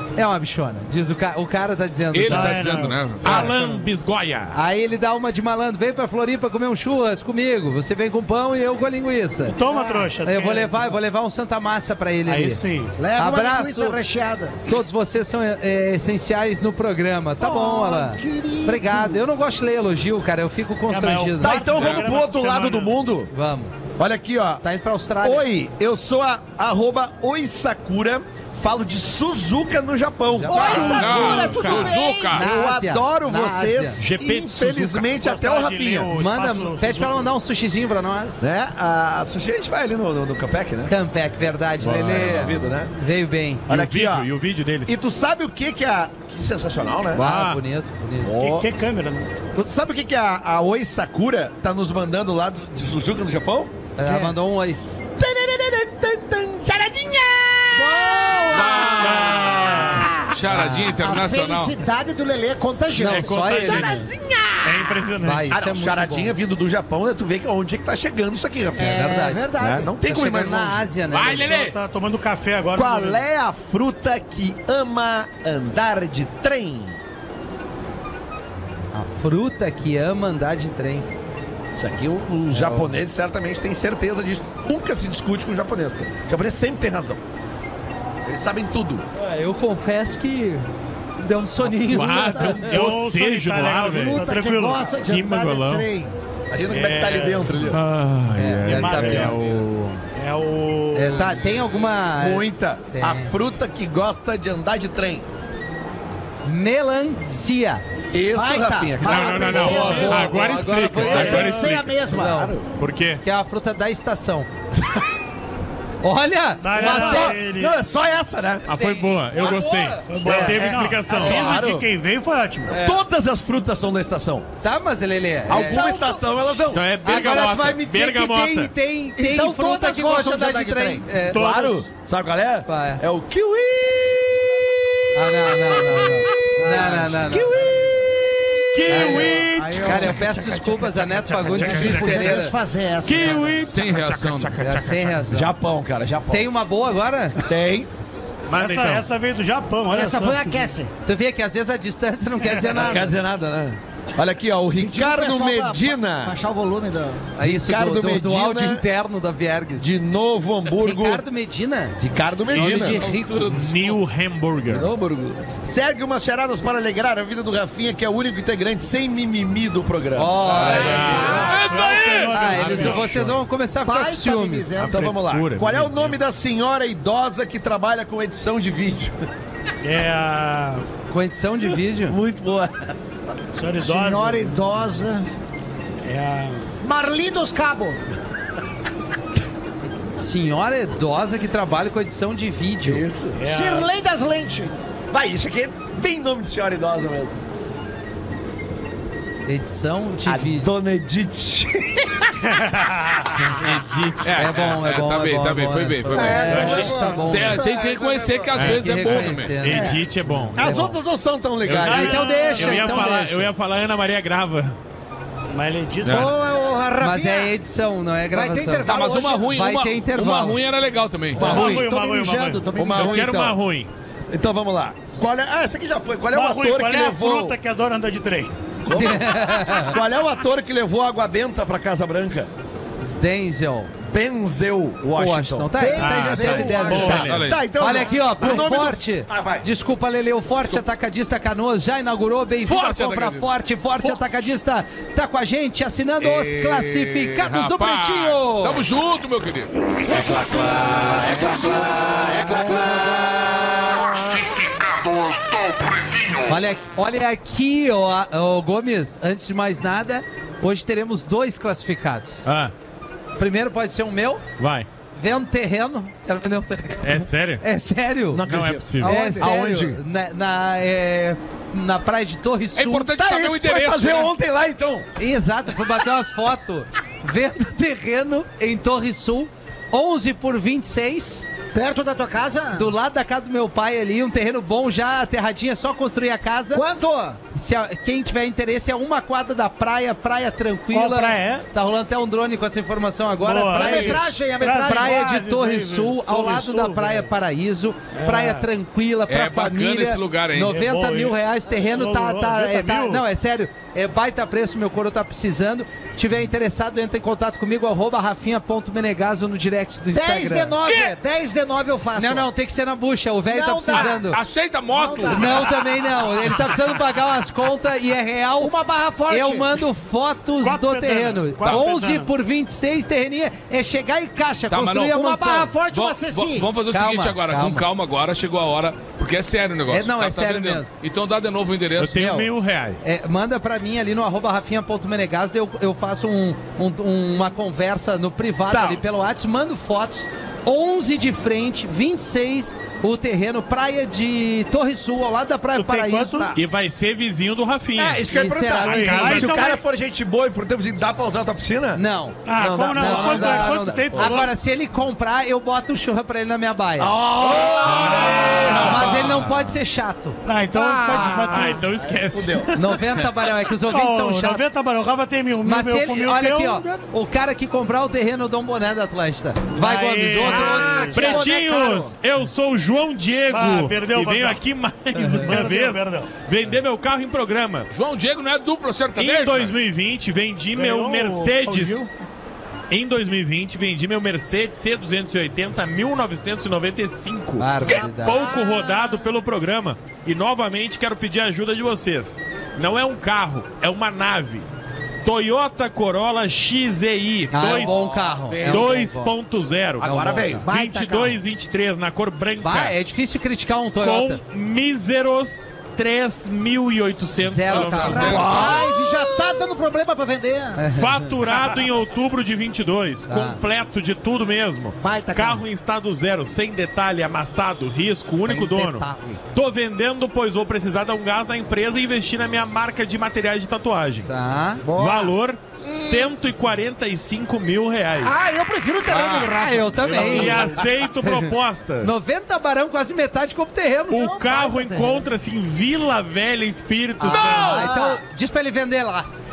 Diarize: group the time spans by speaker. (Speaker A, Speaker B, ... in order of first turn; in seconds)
Speaker A: 0.1-3.5, 4.5-9.6, 10.2-12.6, 13.1-14.0, 14.7-21.6, 23.3-23.7, 24.6-25.5, 30.3-31.2, 32.3-34.0, 36.1-38.5, 40.9-43.6, 47.1-48.4, 54.0-54.8, 60.5-61.0, 63.0-64.0, 65.2-66.3, 68.9-69.5, 70.0-71.5, 78.9-81.1, 82.5-83.0, 89.2-90.7, 91.2-92.7, 98.3-99.4, 100.9-103.3, 106.4-107.8, 109.5-112.5, 113.2-114.5, 116.0-117.4, 118.7-120.1, 122.7-123.0, 124.6-125.9, 127.0-131.4, 132.7-133.0, 135.1-137.5, 138.9-142.5, 144.6-145.5, 146.3-147.4, 151.0-153.1, 157.4-159.9, 160.7-162.0, 162.5-163.7, 170.2-171.4, 172.3-174.7, 181.1-182.2, 190.2-193.0, 199.5-200.7, 204.4-207.7, 208.6-210.0, 210.5-210.9, 211.8-213.5, 217.0-220.6, 228.9-229.9, 233.2-233.9, 235.2-248.8, 256.4-262.5, 263.4-264.4, 265.2-268.4, 269.0-273.1, 275.2-281.5, 282.7-286.8, 287.5-294.2, 294.9-310.7, 312.1-314.4, 315.3-318.7, 319.3-325.7, 326.9-327.9, 329.9-330.9, 332.1-332.5, 333.0-346.5, 348.3-349.6, 351.9-357.1, 358.7-360.4, 362.7-364.6, 365.6-371.4, 375.2-375.5, 387.6-388.5, 397.5-399.3, 400.0-400.6, 402.6-404.4, 407.4-408.4, 410.8-411.3, 413.3-413.6, 418.4-419.4, 424.3-424.8, 429.6-434.2, 437.2-439.3
Speaker B: 2.1-3.5, 21.7-22.0, 30.6-32.5, 58.5-61.8, 143.6-144.6, 162.5-164.0, 170.9-172.5, 204.2-209.6, 216.0-216.3, 218.9-221.5, 237.2-237.6, 242.6-243.5, 244.1-244.4, 246.2-249.7, 272.7-274.3, 299.3-300.8, 310.8-311.1, 313.9-315.8, 324.7-325.1, 325.9-332.2, 377.9-379.8, 407.7-408.9, 429.1-429.5, 437.3-437.9
Speaker C: 2.3-3.5, 9.4-10.8, 12.2-12.9, 20.9-22.9, 35.1-37.3, 48.3-49.3, 71.3-73.2, 92.6-95.0, 96.7-97.7, 98.6-99.5, 100.1-101.6, 116.6-117.8, 120.1-122.8, 131.3-131.9, 148.5-150.5, 170.6-173.1, 179.8-180.9, 183.5-184.6, 186.0-186.7, 193.4-193.9, 202.4-203.3, 206.5-207.1, 211.8-213.2, 215.5-216.3, 221.4-222.7, 226.3-228.5, 290.9-291.7, 293.4-297.3, 298.1-298.7, 300.6-303.2, 320.6-322.3, 345.7-346.6, 348.8-349.8, 352.4-354.5, 358.4-359.0, 360.4-361.9, 363.9-367.0, 369.7-371.4, 373.5-374.6, 375.4-376.4, 380.7-382.1, 411.5-411.8, 430.4-430.9
Speaker D: 3.2-4.5, 31.1-31.9, 34.0-35.1, 41.8-42.5, 43.7-44.9, 47.1-47.6, 58.7-59.9, 63.0-64.1, 64.6-65.5, 69.6-69.9, 71.1-71.8, 91.7-94.3, 95.0-95.9, 97.7-100.0, 109.0-112.0, 112.8-113.2, 118.7-121.6, 126.7-128.7, 138.7-140.3, 141.3-142.5, 143.0-145.2, 148.5-149.1, 163.5-164.9, 170.6-171.5, 172.3-173.4, 174.8-176.1, 203.5-204.3, 208.5-210.7, 211.6-214.8, 222.8-223.9, 235.9-237.5, 262.4-262.7, 264.6-264.9, 267.0-267.6, 268.4-269.5, 332.0-333.2, 346.5-348.2, 357.5-359.8, 361.3-363.3, 371.1-377.9, 379.2-382.1, 382.9-394.6, 395.2-402.9, 404.0-408.7, 410.9-424.3, 424.9-428.4, 430.1-432.2, 434.1-437.9
Speaker E: 9.7-10.0, 13.0-14.6, 17.4-19.2, 30.5-32.4, 54.0-54.4, 57.7-60.3, 61.0-64.1, 68.8-69.9, 92.2-92.6, 93.8-96.1, 108.3-112.5, 125.5-126.3, 129.2-131.1, 136.6-138.0, 138.8-143.7, 149.9-150.9, 154.8-157.2, 171.1-171.7, 173.8-175.1, 183.8-185.3, 186.8-188.0, 193.4-194.8, 206.1-208.7, 216.1-217.5, 218.3-219.5, 221.4-223.3, 235.8-237.2, 250.1-253.2, 281.7-282.9, 286.7-287.4, 293.7-295.3, 310.1-312.5, 313.4-314.2, 314.9-315.7, 318.6-319.8, 325.1-326.7, 360.7-361.7, 370.4-372.1, 387.8-389.3, 400.6-401.4, 408.1-410.8, 415.0-415.6, 424.8-425.4, 425.9-426.3, 428.2-430.8, 434.1-435.3, 437.3-438.2
Speaker F: 21.4-23.3, 24.0-24.6, 25.2-31.7, 32.3-36.1, 38.4-40.9, 41.9-42.9, 43.7-44.3, 44.8-47.2, 48.2-48.7, 49.5-53.7, 55.1-59.9, 63.9-64.7, 65.5-70.9, 72.7-77.0, 81.7-87.2, 88.2-89.0, 96.5-97.8, 102.2-105.2, 108.1-110.2, 111.2-111.5, 112.1-112.7, 116.8-118.7, 120.2-121.9, 122.7-124.5, 125.5-127.1, 131.3-134.5, 135.5-135.8, 136.7-138.3, 138.9-139.3, 141.7-142.5, 145.3-146.5, 147.4-147.9, 152.7-156.3, 157.4-158.8, 159.8-161.2, 162.0-163.0, 164.7-171.3, 174.9-179.2, 181.9-183.3, 192.8-193.4, 195.1-197.4, 200.2-202.3, 206.1-207.2, 210.5-212.3, 221.3-221.8, 222.7-223.6, 224.3-227.6, 228.8-232.5, 234.0-239.7, 250.1-254.1, 268.3-270.0, 273.1-275.1, 338.7-339.0, 347.9-354.4, 357.0-359.4, 361.1-362.7, 397.6-399.0, 400.0-400.6, 408.3-409.2